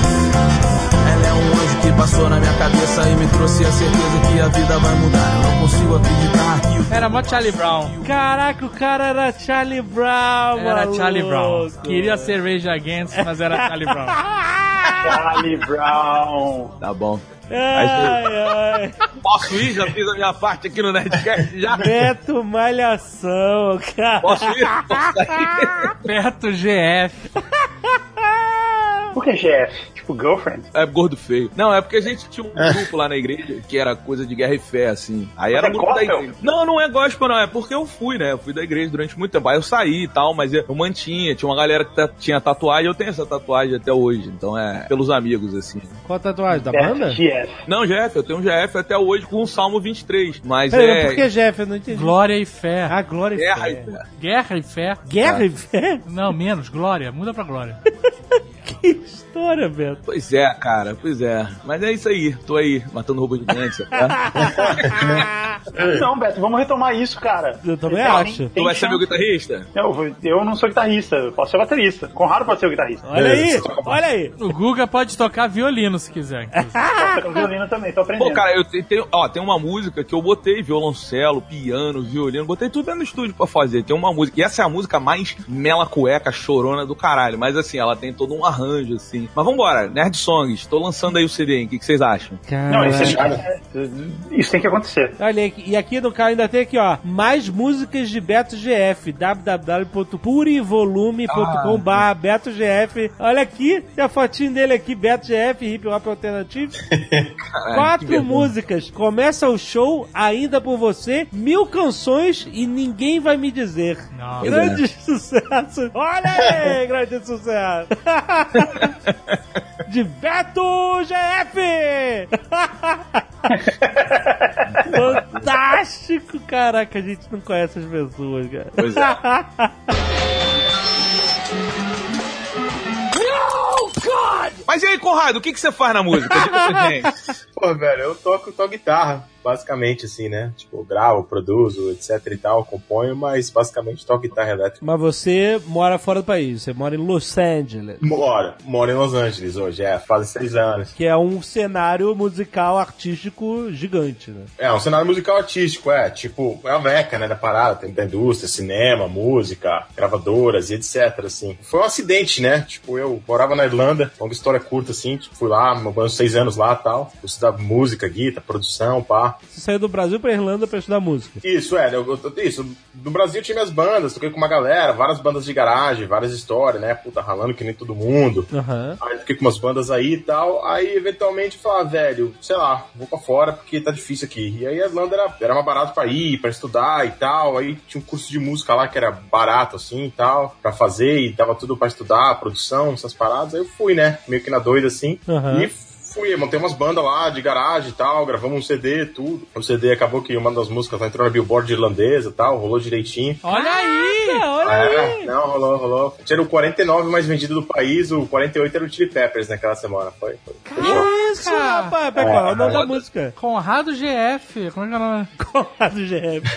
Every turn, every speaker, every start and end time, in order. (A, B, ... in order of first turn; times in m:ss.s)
0:01.0-0:08.2 A
0:06.9-0:07.9 B
0:08.0-0:12.4 C
0:10.6-0:14.2 B
0:13.2-0:15.3 C
0:15.0-0:16.7 D
0:16.8-0:18.6 E
0:17.5-0:19.0 C
0:19.1-0:22.0 E
0:21.8-0:25.9 C
0:24.2-0:26.0 E
0:26.0-0:27.3 B
0:27.6-0:29.2 C
0:29.1-0:30.7 D
0:30.7-0:46.0 E
0:35.5-0:36.4 D
0:46.0-0:47.2 C
0:46.7-0:47.6 D
0:47.7-0:51.3 E
0:50.7-0:52.2 C
0:51.9-0:53.0 B
0:52.9-0:53.9 C
0:53.4-0:54.0 E
0:54.2-0:55.0 B
0:55.0-0:56.0 C
0:56.1-0:57.8 B
0:58.6-1:00.0 C
1:00.1-1:05.3 E
1:03.9-1:05.6 C
1:04.4-1:06.1 F
1:05.8-1:09.0 D
1:07.6-1:08.5 C
1:08.6-1:09.7 E
1:09.8-1:13.1 D
1:13.0-1:14.4 C
1:13.1-1:14.0 F
1:14.4-1:16.8 B
1:16.6-1:17.5 C
1:16.9-1:18.4 D
1:18.2-1:32.4 E
1:32.5-1:33.4 C
1:32.7-1:35.2 D
1:32.8-1:33.4 F
1:35.2-1:46.8 C
1:41.3-1:42.0 E
1:46.8-1:47.3 F
1:47.5-1:48.5 E
1:47.7-1:58.8 C
1:54.1-1:54.5 B
1:54.4-1:54.8 E
1:58.8-1:59.1 E
1:59.9-2:03.2 C
2:03.5-2:04.9 D
2:04.7-2:05.4 E
2:04.9-2:09.9 C
2:08.8-2:09.2 E
2:13.1-2:14.6 C
2:14.7-2:17.2 E
2:16.2-2:17.1 C
2:17.6-2:24.8 F
2:24.8-2:28.0 C
2:28.0-2:30.9 F
2:31.0-2:34.5 C
2:34.6-2:49.4 F
2:49.5-2:51.4 C
2:51.4-3:23.4 F
2:58.5-2:59.0 C
3:15.3-3:15.7 C
3:23.4-3:24.4 B
3:23.5-3:25.3 C
3:24.6-3:31.1 F
3:30.7-3:32.0 B
3:30.8-3:33.4 C
3:32.2-3:32.8 F
3:32.7-3:33.0 E
3:33.4-3:35.3 B
3:35.4-3:36.5 C